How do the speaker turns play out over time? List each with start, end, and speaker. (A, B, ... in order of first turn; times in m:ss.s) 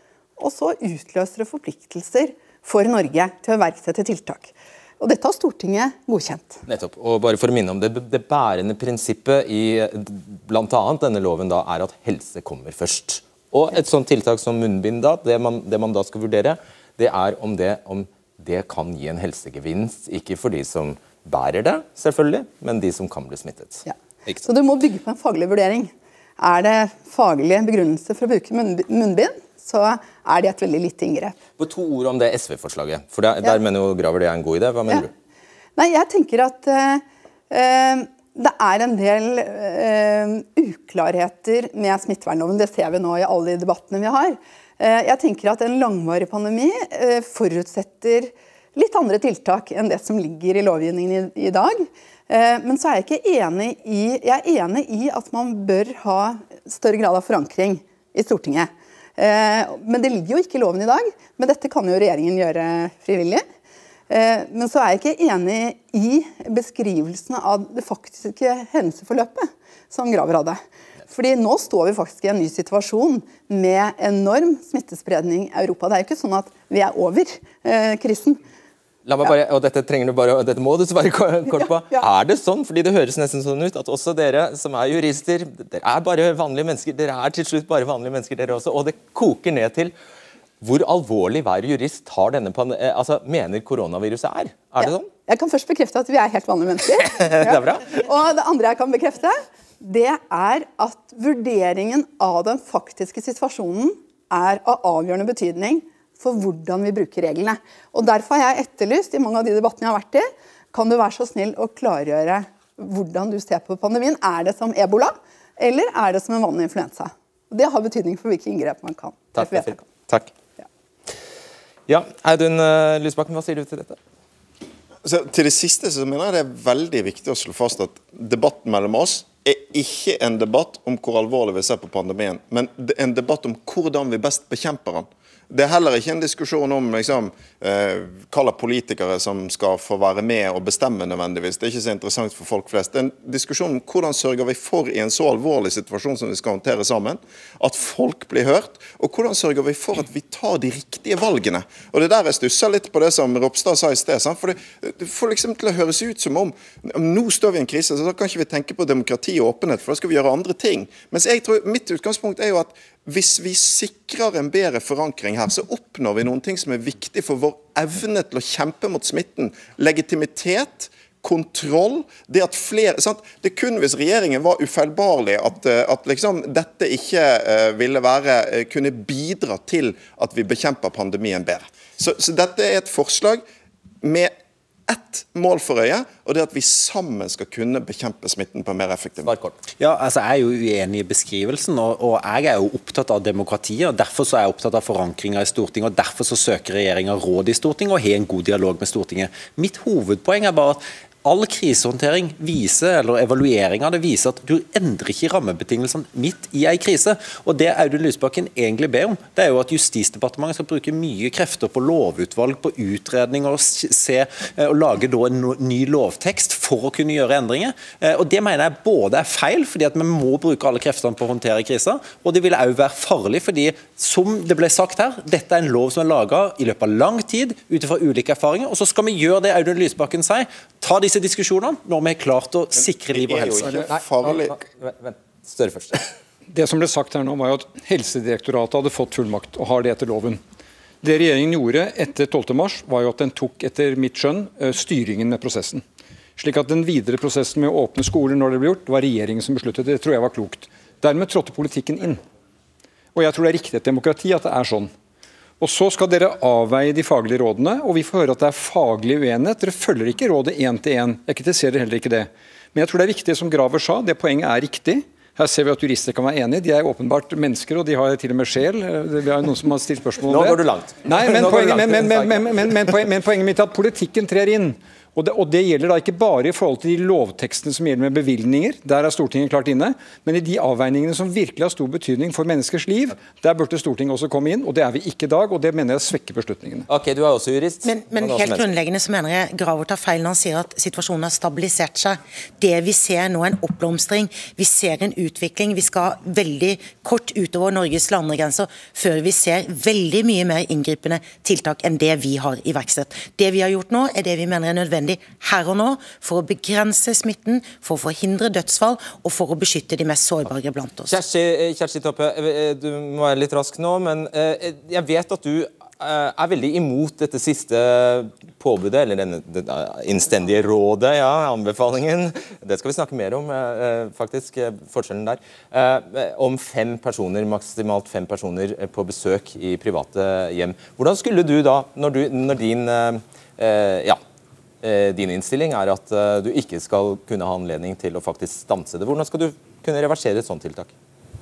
0:00.4-0:06.6 A
0:06.7-0:24.4 B
0:23.8-0:31.4 A
0:31.6-0:35.1 B
0:35.8-1:03.4 A
1:04.1-1:18.4 A
1:19.1-1:29.9 B
1:21.6-1:22.0 A
1:30.6-1:35.1 B
1:34.8-1:59.8 A
1:37.3-1:37.8 B
1:59.4-2:00.3 B
2:01.9-2:04.0 B
2:05.0-3:03.4 C
3:04.0-3:04.3 C
3:04.9-3:09.3 C
3:09.3-3:09.6 B
3:09.8-3:53.9 D
3:53.1-3:54.5 C
3:53.9-3:56.1 B
3:56.5-4:00.4 E
4:01.0-4:05.8 E
4:06.4-4:12.2 E
4:13.1-4:14.9 E
4:15.6-4:46.9 E
4:30.3-4:32.7 B
4:46.9-4:48.7 B
4:47.8-5:11.2 F
5:11.1-5:34.2 B
5:34.8-5:40.9 B